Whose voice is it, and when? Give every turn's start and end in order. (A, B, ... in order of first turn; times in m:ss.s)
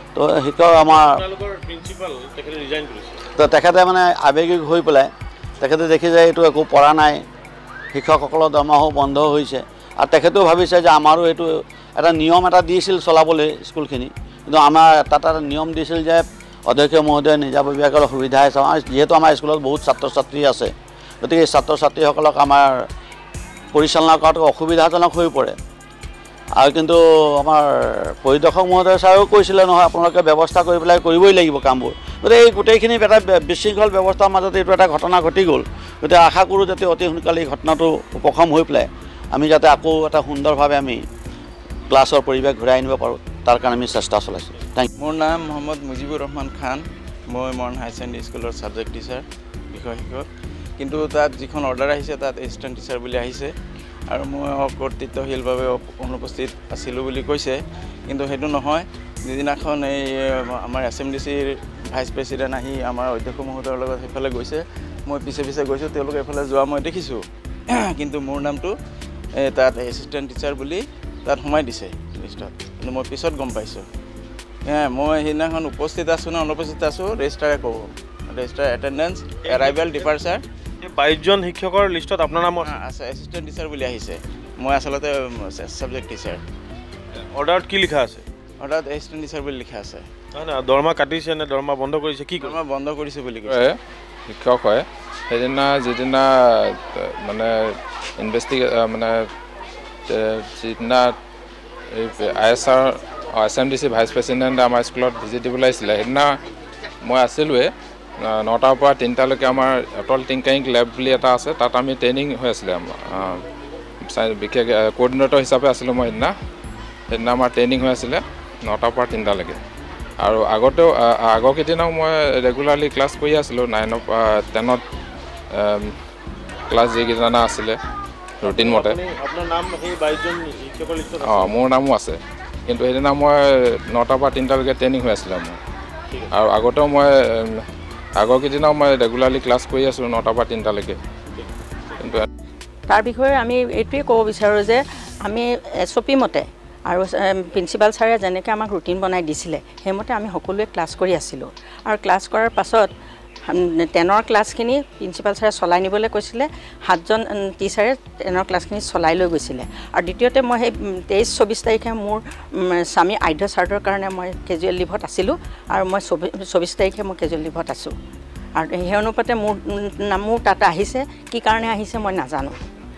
0:00.1-0:01.2 A
0:00.9-0:03.2 B
0:03.4-0:07.2 A
0:07.9-0:20.7 A
0:21.2-0:22.8 A
0:23.7-0:25.6 A
0:26.6-0:41.0 A
0:41.9-0:44.9 A
0:45.0-0:50.3 C
0:50.8-0:53.5 C
0:54.1-1:07.2 C
1:07.7-1:08.7 C
1:09.4-1:13.8 C
1:14.7-1:20.4 C
1:20.8-1:22.6 B
1:22.6-1:26.4 C
1:27.4-1:28.2 B
1:28.6-1:30.1 C
1:30.4-1:32.4 B
1:32.4-1:33.6 C
1:33.4-1:33.8 D
1:34.3-1:39.3 D
1:40.1-1:41.1 D
1:41.9-1:46.4 D
1:47.0-1:47.7 D
1:48.2-1:53.4 D
1:54.0-1:56.3 D
1:57.1-1:59.6 D
2:00.2-2:04.8 D
2:05.5-2:05.9 D
2:06.7-2:07.8 D
2:08.4-2:09.0 D
2:08.6-2:11.3 B
2:11.2-2:15.6 D
2:16.3-2:17.6 D
2:18.2-2:21.0 D
2:22.9-2:32.9 E
2:33.5-2:47.9 E
2:48.6-2:52.6 E